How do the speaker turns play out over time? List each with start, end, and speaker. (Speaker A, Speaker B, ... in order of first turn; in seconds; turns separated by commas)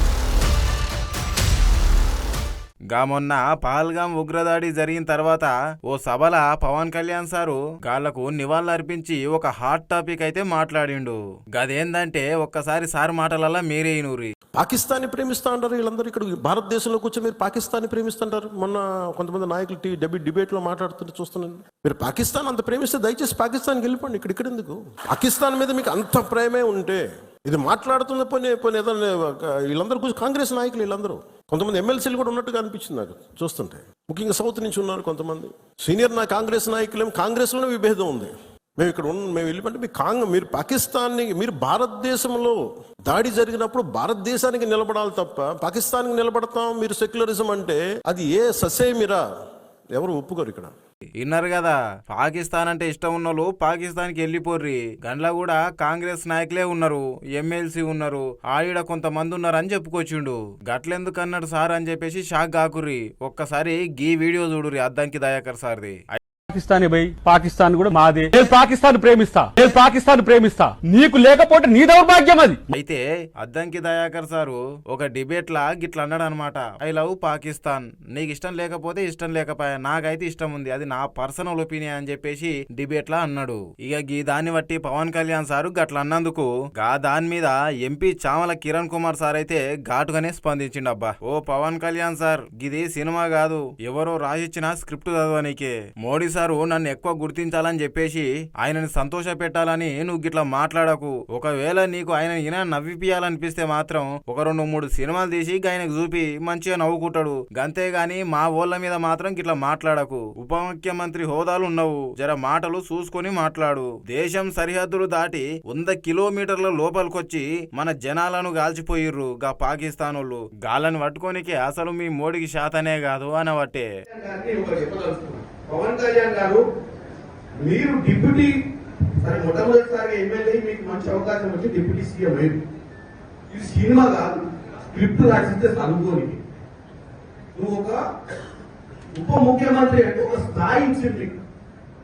Speaker A: 2.9-14.3, Speaker B: 14.5-49.2, Speaker B: 49.9-50.7, Speaker A: 51.2-66.2, Speaker C: 66.5-72.6, Speaker A: 72.7-123.9, Speaker D: 124.1-126.6, Speaker D: 127.6-128.5, Speaker D: 129.2-132.6, Speaker D: 133.5-136.4, Speaker D: 137.6-138.0, Speaker D: 139.1-141.4